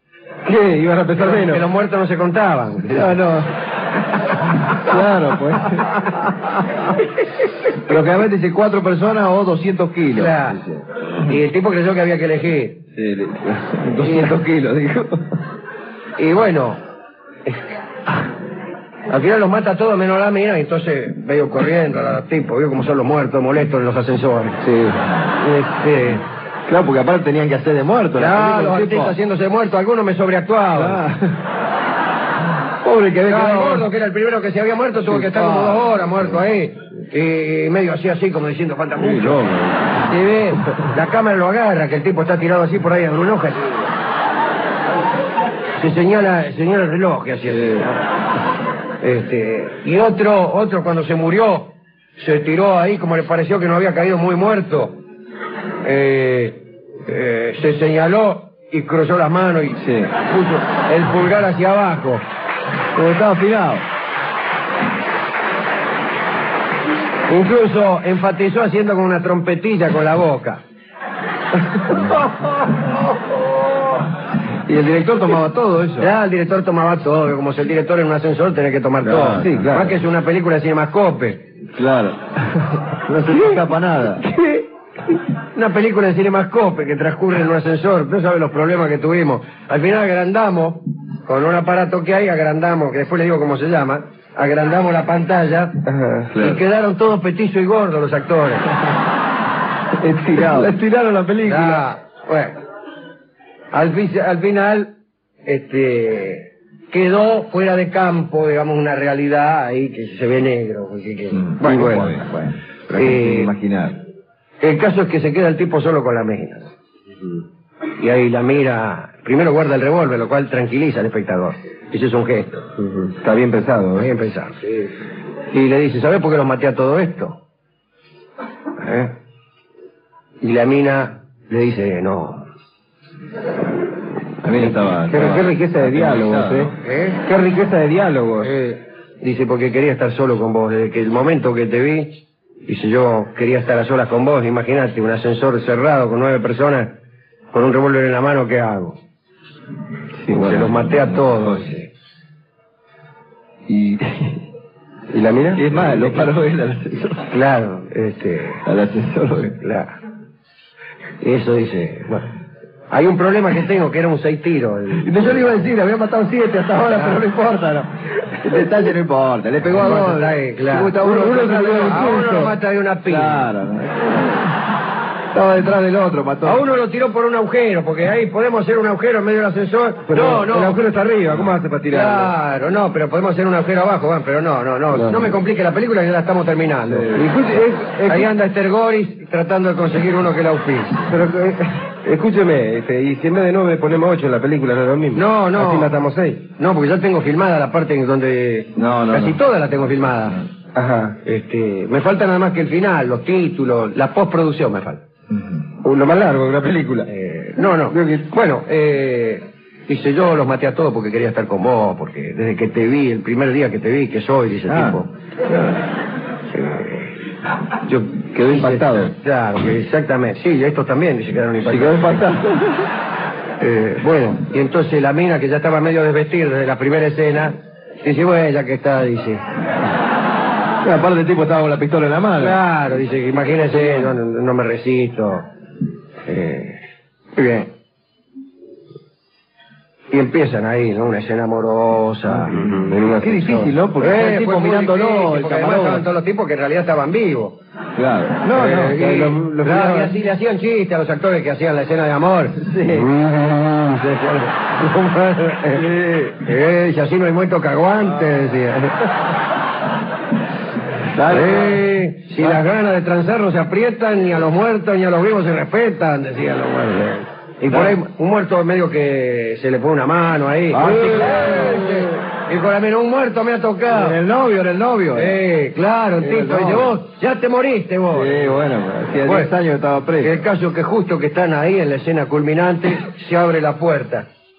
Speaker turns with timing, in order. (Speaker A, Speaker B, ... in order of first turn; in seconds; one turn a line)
Speaker A: 0.5-1.6
Speaker B: 1.2-3.2
Speaker C: 2.9-3.5
Speaker C: 4.7-6.0
Speaker C: 7.8-10.8
Speaker B: 10.1-10.6
Speaker B: 11.2-12.8
Speaker C: 12.9-15.3
Speaker B: 14.0-14.3
Speaker B: 16.2-16.8
Speaker B: 19.1-24.6
Speaker C: 24.6-25.2
Speaker B: 25.4-26.2
Speaker C: 26.7-29.1
Speaker B: 28.2-31.0
Speaker C: 30.8-31.4
Speaker C: 32.8-33.9
Speaker B: 33.2-39.5
Speaker C: 35.1-35.9
Speaker C: 39.0-40.0
Speaker B: 40.0-43.9
Speaker B: 45.8-48.0
Speaker C: 47.5-47.9
Speaker B: 49.0-55.0
Speaker B: 55.8-62.2
Speaker C: 59.8-60.1
Speaker C: 63.0-63.9
Speaker B: 67.3-70.6
Speaker C: 71.9-72.3
Speaker C: 74.7-76.1
Speaker B: 76.0-81.4
Speaker C: 79.0-79.9
Speaker A: 79.4-79.9
Speaker C: 81.8-84.2
Speaker B: 85.5-95.8
Speaker A: 95.8-96.3
Speaker C: 96.3-96.6
Speaker B: 96.4-98.7
Speaker C: 100.0-100.8
Speaker A: 100.0-101.8
Speaker B: 101.4-102.6
Speaker B: 103.7-104.9
Speaker B: 105.5-113.5
Speaker C: 111.3-114.0
Speaker A: 111.7-112.1
Speaker B: 114.6-116.7
Speaker B: 118.0-122.6
Speaker A: 122.8-124.1
Speaker B: 124.0-124.9
Speaker B: 125.5-127.4
Speaker B: 128.8-129.1
Speaker B: 130.4-132.5
Speaker C: 134.4-136.8
Speaker A: 134.6-138.5
Speaker B: 136.8-137.2
Speaker B: 138.4-146.9
Speaker B: 147.5-149.0
Speaker C: 150.2-151.7
Speaker B: 150.3-151.9
Speaker C: 153.7-154.4
Speaker A: 155.1-156.2
Speaker C: 155.6-157.3
Speaker B: 157.3-158.6
Speaker C: 158.7-159.6
Speaker B: 159.6-160.0
Speaker B: 161.2-162.3
Speaker B: 162.9-165.6
Speaker C: 165.0-172.1
Speaker B: 169.8-173.5
Speaker A: 170.9-172.6
Speaker C: 173.1-174.5
Speaker C: 175.3-176.6
Speaker B: 176.4-180.8
Speaker A: 180.1-182.3
Speaker B: 181.9-187.2
Speaker A: 184.9-185.4
Speaker A: 187.0-188.3
Speaker B: 188.1-191.1
Speaker A: 191.1-196.4
Speaker B: 195.1-196.0
Speaker B: 196.6-200.4
Speaker C: 198.8-199.4
Speaker A: 200.8-201.2
Speaker B: 201.2-205.0
Speaker A: 205.8-207.1
Speaker B: 207.1-215.1
Speaker A: 207.9-208.2
Speaker C: 214.7-215.8
Speaker B: 216.5-217.2
Speaker C: 217.9-219.1
Speaker B: 218.4-222.3
Speaker C: 221.7-222.9
Speaker B: 223.6-229.4
Speaker C: 230.8-232.6
Speaker B: 232.4-235.5
Speaker B: 236.3-236.8
Speaker B: 237.3-237.7
Speaker B: 240.1-242.6
Speaker C: 242.5-246.0
Speaker A: 242.5-243.7
Speaker B: 244.0-247.6
Speaker C: 248.0-250.1
Speaker B: 248.5-255.8
Speaker A: 248.9-250.1
Speaker C: 252.6-253.1
Speaker C: 255.7-256.4
Speaker B: 256.4-259.1
Speaker C: 261.1-261.8
Speaker B: 261.3-274.2
Speaker C: 267.7-268.0
Speaker C: 270.7-272.1
Speaker C: 273.9-275.4
Speaker B: 275.1-278.6
Speaker C: 276.2-276.9
Speaker C: 278.1-280.4
Speaker B: 279.2-279.5
Speaker B: 280.2-284.3